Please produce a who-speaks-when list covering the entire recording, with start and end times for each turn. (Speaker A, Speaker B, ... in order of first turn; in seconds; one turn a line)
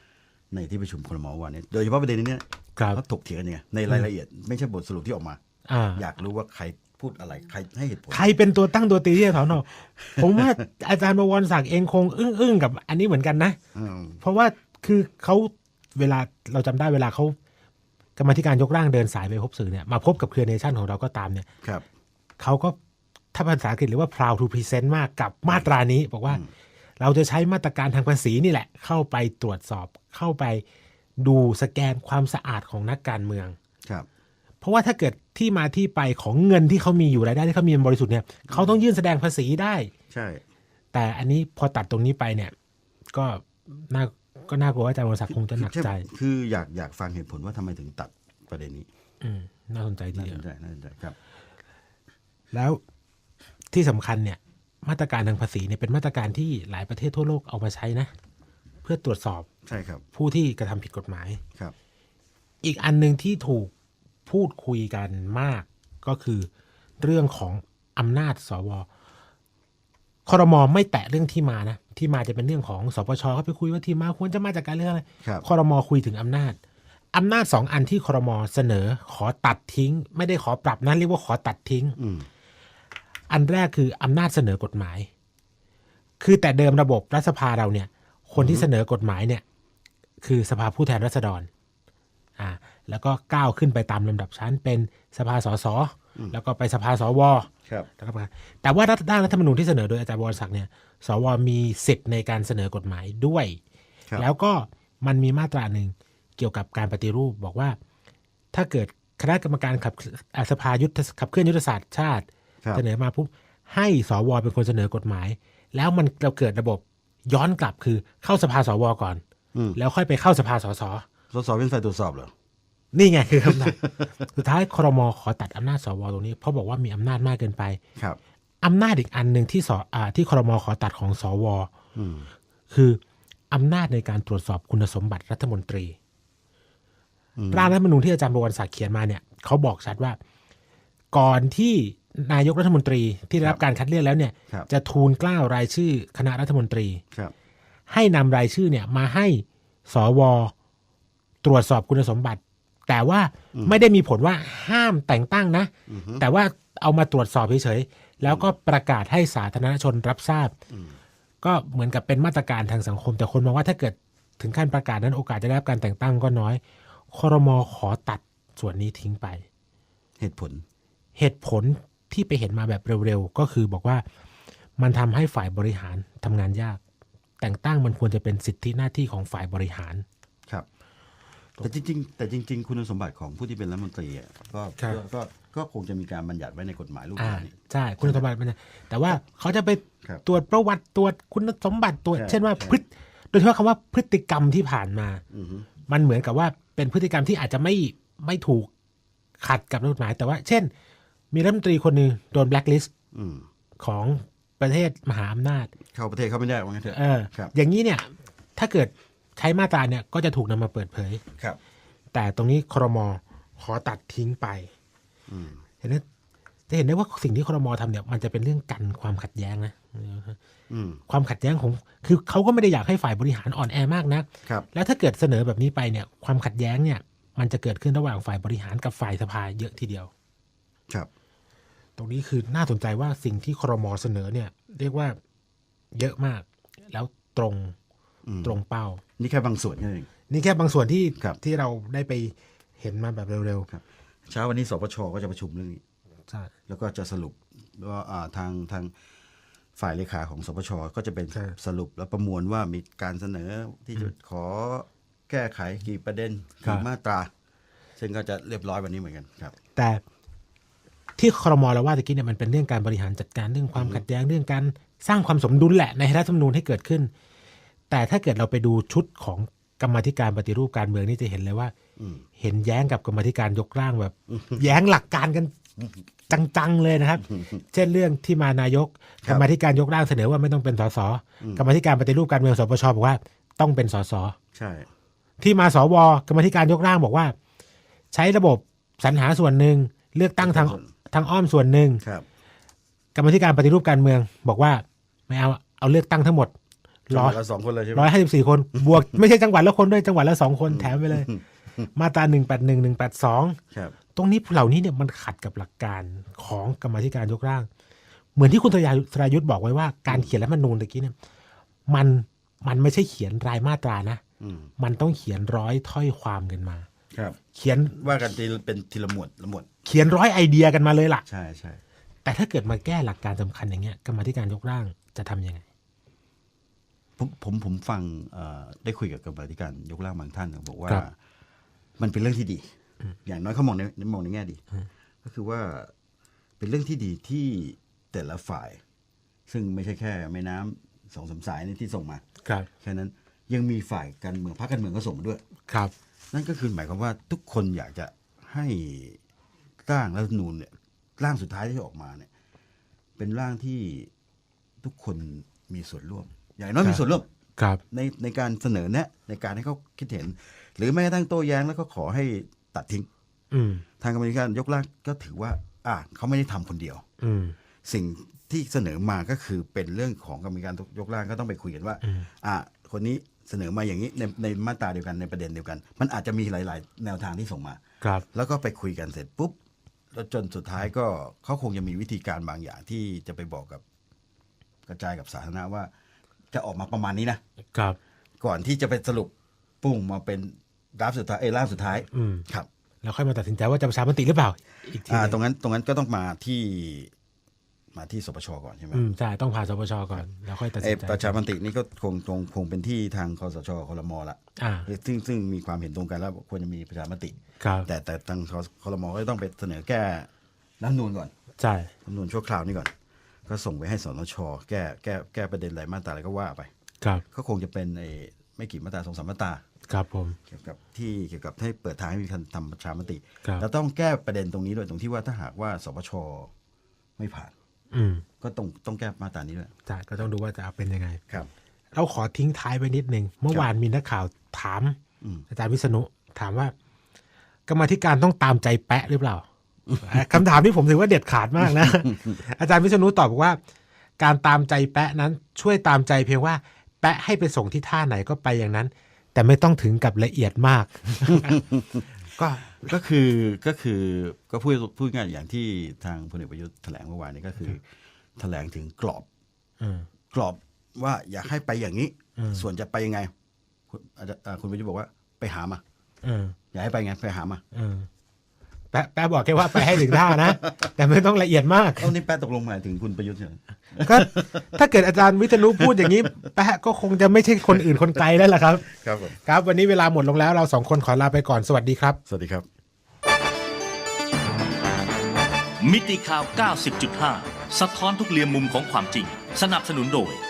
Speaker A: 0.5-5.4
Speaker B: 5.7-6.0
Speaker A: 6.0-8.4
Speaker B: 8.1-13.6
Speaker A: 10.0-10.6
Speaker A: 13.7-14.2
Speaker B: 14.2-17.4
Speaker B: 18.2-21.5
Speaker B: 22.4-22.8
Speaker B: 23.3-26.4
Speaker B: 27.0-30.6
Speaker B: 31.2-33.6
Speaker B: 34.6-39.9
Speaker A: 38.5-38.8
Speaker A: 40.1-40.4
Speaker B: 40.9-42.5
Speaker B: 43.1-46.0
Speaker A: 45.3-48.9
Speaker B: 49.2-50.4
Speaker A: 50.1-51.1
Speaker B: 52.5-52.8
Speaker B: 53.7-58.1
Speaker B: 58.8-59.5
Speaker A: 59.7-60.0
Speaker B: 60.1-61.4
Speaker B: 62.6-63.7
Speaker B: 64.3-68.9
Speaker B: 70.3-76.6
Speaker B: 77.1-82.0
Speaker A: 82.0-82.3
Speaker B: 83.3-85.1
Speaker B: 86.2-89.4
Speaker A: 88.4-88.7
Speaker B: 90.2-91.5
Speaker B: 92.4-103.6
Speaker B: 104.2-107.8
Speaker B: 108.5-119.2
Speaker B: 119.8-121.1
Speaker A: 121.3-122.3
Speaker B: 122.9-123.8
Speaker A: 123.5-124.1
Speaker B: 124.3-127.8
Speaker B: 128.6-131.7
Speaker A: 131.9-132.3
Speaker B: 132.7-133.0
Speaker B: 133.5-136.0
Speaker A: 137.4-137.8
Speaker B: 137.5-140.2
Speaker B: 141.1-147.0
Speaker B: 147.9-150.5
Speaker B: 151.4-160.5
Speaker A: 153.5-153.8
Speaker A: 155.9-156.2
Speaker A: 158.2-158.5
Speaker A: 160.7-161.0
Speaker B: 161.4-166.6
Speaker B: 167.1-169.4
Speaker A: 170.2-170.7
Speaker B: 171.2-174.0
Speaker B: 174.8-176.8
Speaker B: 177.4-180.1
Speaker A: 181.6-188.2
Speaker B: 187.2-195.2
Speaker A: 192.1-192.8
Speaker A: 195.3-195.7
Speaker B: 195.9-198.7
Speaker B: 199.4-200.7
Speaker B: 201.3-202.9
Speaker A: 203.1-203.5
Speaker B: 203.8-205.7
Speaker A: 205.9-207.5
Speaker B: 206.9-211.2
Speaker B: 212.1-214.7
Speaker A: 215.3-215.6
Speaker B: 216.7-220.4
Speaker A: 220.7-221.0
Speaker B: 221.1-230.1
Speaker B: 232.0-235.2
Speaker B: 235.9-237.8
Speaker A: 238.3-238.6
Speaker B: 238.4-239.0
Speaker A: 239.2-240.1
Speaker B: 240.3-243.7
Speaker A: 243.7-245.8
Speaker A: 246.7-248.9
Speaker A: 249.8-257.3
Speaker A: 258.0-259.6
Speaker B: 259.8-260.0
Speaker B: 261.2-267.1
Speaker A: 263.8-264.0
Speaker B: 267.9-271.7
Speaker A: 272.0-272.2
Speaker B: 272.4-275.6
Speaker A: 274.3-274.6
Speaker B: 276.3-284.4
Speaker A: 277.3-277.6
Speaker A: 284.5-284.9
Speaker B: 285.4-287.3
Speaker B: 288.1-292.0
Speaker A: 290.4-290.9
Speaker B: 293.1-296.5
Speaker B: 297.1-297.4
Speaker A: 297.1-298.1
Speaker B: 297.9-301.3
Speaker A: 298.8-299.0
Speaker A: 300.7-301.9
Speaker B: 301.9-303.6
Speaker B: 304.1-307.7
Speaker B: 308.4-311.1
Speaker B: 311.9-314.2
Speaker A: 314.4-314.7
Speaker B: 314.8-316.9
Speaker A: 317.1-317.4
Speaker B: 317.5-318.1
Speaker A: 318.0-319.7
Speaker B: 319.9-321.2
Speaker A: 321.3-321.8
Speaker B: 322.2-325.6
Speaker A: 327.2-331.1
Speaker A: 332.0-334.6
Speaker A: 335.2-335.9
Speaker A: 336.6-338.8
Speaker A: 339.5-342.2
Speaker A: 342.8-345.4
Speaker A: 346.3-349.2
Speaker A: 349.9-352.3
Speaker A: 353.2-354.1
Speaker A: 354.8-357.3
Speaker B: 357.6-357.8
Speaker A: 357.9-363.1
Speaker B: 363.5-363.9
Speaker A: 364.0-367.1
Speaker B: 367.2-367.6
Speaker A: 367.8-377.8
Speaker A: 378.3-379.6
Speaker A: 380.1-383.8
Speaker A: 384.9-385.9
Speaker A: 386.5-387.4
Speaker A: 388.4-392.7
Speaker B: 392.1-392.4
Speaker B: 393.0-395.4
Speaker A: 395.1-397.1
Speaker A: 397.9-399.0
Speaker B: 398.9-401.4
Speaker A: 400.8-411.3
Speaker B: 404.6-404.9
Speaker B: 407.6-407.9
Speaker B: 411.6-411.9
Speaker A: 412.1-412.9
Speaker A: 413.5-416.7
Speaker A: 417.3-419.6
Speaker B: 419.9-420.4
Speaker A: 420.5-426.5
Speaker A: 427.2-427.5
Speaker B: 427.9-428.2
Speaker A: 428.4-429.7
Speaker B: 429.9-431.2
Speaker B: 431.9-435.0
Speaker A: 435.2-435.5
Speaker B: 435.5-436.7
Speaker B: 437.7-439.4
Speaker B: 440.0-443.6
Speaker A: 441.8-442.3
Speaker B: 444.2-451.6
Speaker A: 451.3-452.0
Speaker B: 452.4-452.9
Speaker A: 452.8-457.9
Speaker A: 458.4-459.3
Speaker B: 459.8-460.1
Speaker A: 460.3-463.3
Speaker B: 462.4-462.6
Speaker A: 463.9-465.8
Speaker B: 466.2-466.6
Speaker A: 466.7-467.6
Speaker B: 467.7-468.1
Speaker B: 468.9-472.1
Speaker A: 469.7-470.7
Speaker A: 472.0-474.8
Speaker B: 474.1-478.9
Speaker A: 475.5-476.4
Speaker A: 478.9-479.4
Speaker B: 479.4-482.2
Speaker A: 482.3-482.7
Speaker C: 485.8-490.4